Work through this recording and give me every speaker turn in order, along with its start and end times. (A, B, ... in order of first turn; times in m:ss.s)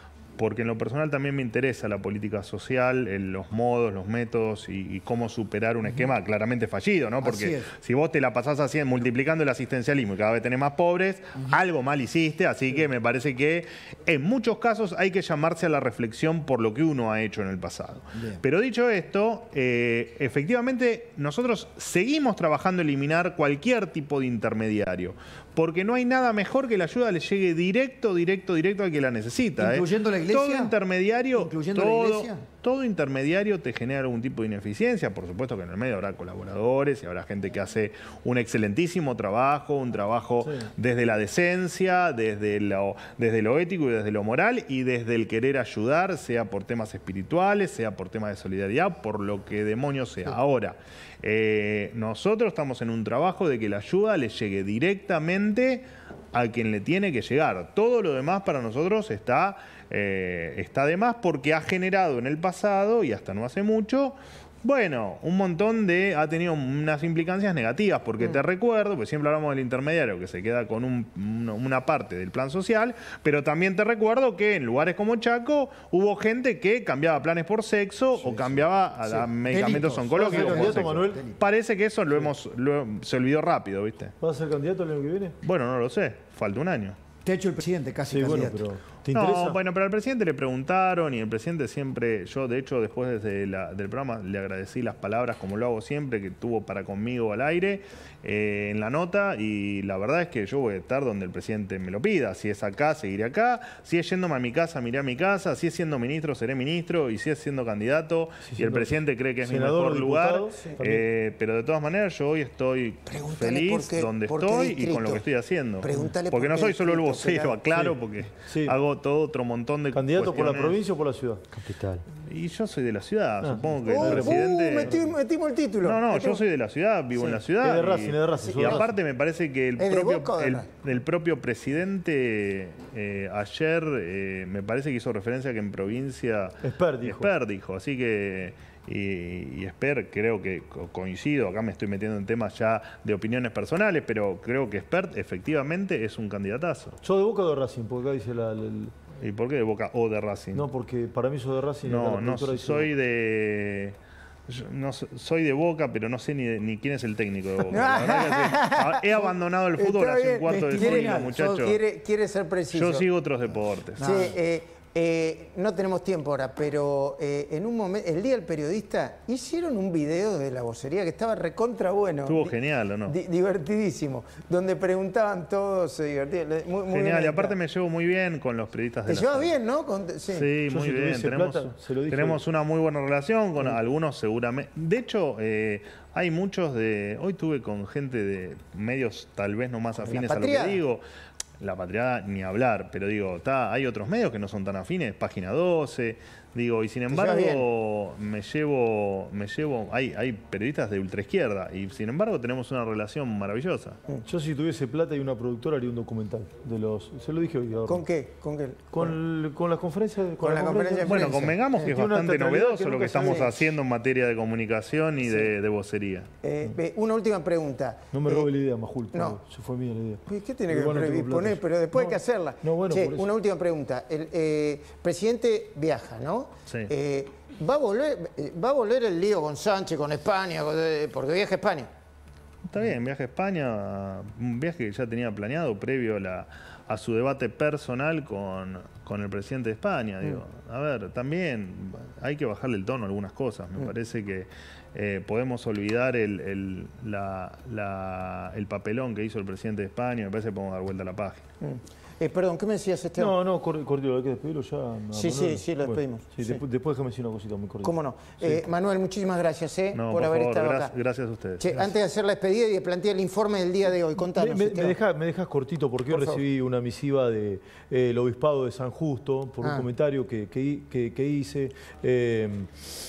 0:00.4-1:24.1 A
0:07.2-0:07.7 B
0:18.1-0:18.4 B
0:29.6-0:30.7 B
0:31.3-0:32.4 B
1:18.2-1:21.4 B
1:20.2-1:21.2 C
1:24.2-1:25.4 C
1:25.4-1:27.0 A
1:27.2-1:28.7 B
1:28.1-1:29.6 C
1:29.1-2:00.8 A
1:48.5-1:48.9 C
1:49.4-1:51.0 C
1:53.0-1:55.2 D
1:55.8-1:57.6 D
1:57.7-1:58.7 C
1:59.9-2:02.0 C
2:02.2-2:05.0 A
2:03.4-2:05.1 C
2:03.8-2:06.4 D
2:05.8-2:27.0 A
2:07.6-2:08.9 C
2:08.5-2:08.8 D
2:09.8-2:10.6 D
2:16.6-2:17.3 C
2:27.0-2:29.0 C
2:29.2-2:30.7 A
2:30.5-2:32.9 C
2:31.8-2:34.0 A
2:34.5-2:41.8 A
2:37.7-2:43.0 D
2:40.5-2:41.5 B
2:42.7-2:44.3 A
2:44.0-2:44.4 B
2:44.0-2:52.5 D
2:52.2-2:53.2 A
2:53.0-2:57.6 D
2:56.9-2:59.5 A
2:59.1-3:00.5 D
3:00.3-3:11.0 A
3:00.7-3:02.4 C
3:10.0-3:10.8 D
3:11.6-3:24.0 A
3:17.1-3:17.6 D
3:24.2-3:28.0 C
3:27.9-3:29.1 D
3:28.9-3:33.4 C
3:30.4-3:31.9 D
3:31.0-3:36.3 A
3:33.1-3:33.5 D
3:36.4-3:38.5 D
3:38.1-3:43.2 C
3:39.1-3:39.4 D
3:40.2-3:51.9 D
3:52.7-4:11.4 A
4:11.6-4:13.3 D
4:13.2-4:18.6 C
4:15.1-4:16.6 D
4:17.8-4:20.9 D
4:19.9-4:21.6 A
4:21.6-4:25.0 D
4:24.2-4:32.8 C
4:26.1-4:26.4 D